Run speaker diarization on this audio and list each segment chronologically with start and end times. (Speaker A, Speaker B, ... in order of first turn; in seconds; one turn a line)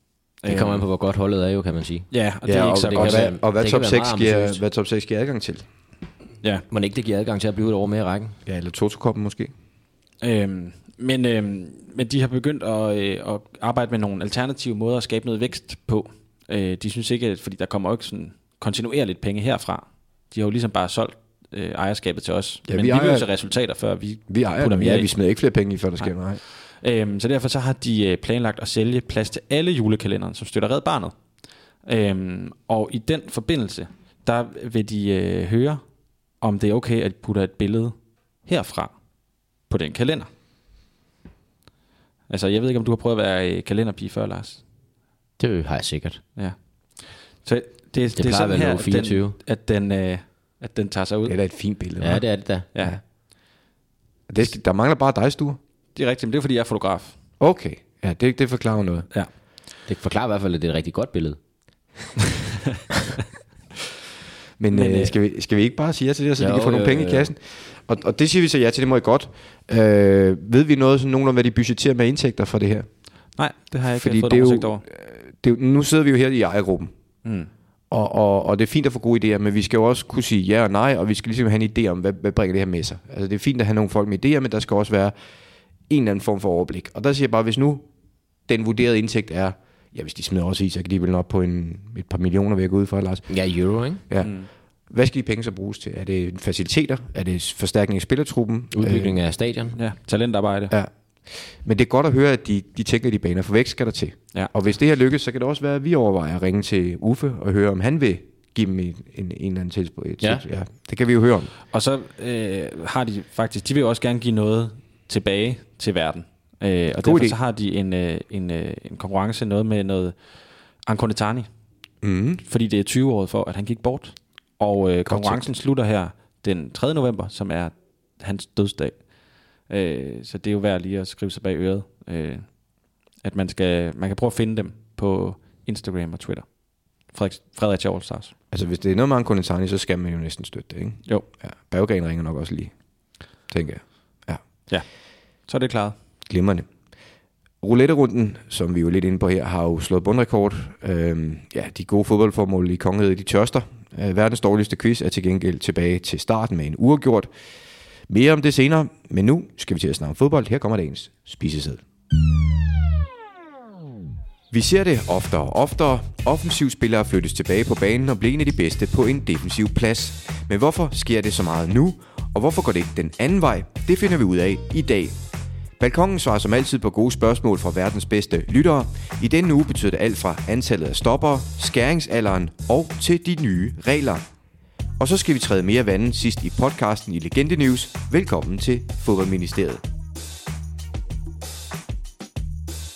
Speaker A: 0.4-0.8
Speaker B: 0.5-2.1
Speaker A: 2.1-3.3
Speaker C: 2.4-5.6
Speaker B: 2.9-4.6
Speaker B: 6.7-8.4
Speaker C: 8.4-9.5
Speaker A: 10.2-25.1
Speaker C: 22.7-23.3
Speaker C: 24.3-26.4
Speaker A: 26.7-31.1
Speaker A: 31.9-35.8
Speaker A: 36.4-37.9
Speaker A: 38.4-38.9
Speaker A: 39.7-40.3
Speaker A: 42.3-44.6
Speaker B: 45.4-46.2
Speaker A: 46.4-51.4
Speaker B: 48.1-49.4
Speaker C: 51.2-52.2
Speaker B: 52.0-52.7
Speaker C: 54.3-55.6
Speaker A: 56.0-57.1
Speaker C: 57.4-59.1
Speaker B: 59.9-61.4
Speaker C: 64.6-72.9
Speaker A: 64.7-65.1
Speaker B: 66.4-67.3
Speaker A: 73.4-74.8
Speaker C: 73.9-76.9
Speaker A: 77.2-77.5
Speaker C: 77.9-85.1
Speaker C: 85.9-87.8
Speaker C: 88.5-93.2
Speaker B: 93.3-94.0
Speaker C: 94.1-94.3
Speaker A: 94.2-94.5
Speaker C: 94.9-99.2
Speaker B: 98.7-99.8
Speaker A: 99.8-100.7
Speaker C: 100.7-111.5
Speaker A: 111.7-120.1
Speaker C: 117.0-117.3
Speaker A: 120.9-121.5
Speaker C: 122.0-122.4
Speaker A: 122.5-128.9
Speaker C: 125.0-125.5
Speaker A: 129.7-132.5
Speaker A: 133.2-136.5
Speaker A: 137.1-138.3
Speaker C: 138.5-142.7
Speaker C: 143.5-144.4
Speaker A: 145.5-145.9
Speaker C: 146.3-146.7
Speaker C: 147.6-157.3
Speaker C: 158.1-161.8
Speaker C: 164.5-175.2
Speaker C: 175.8-184.2
Speaker C: 185.0-189.8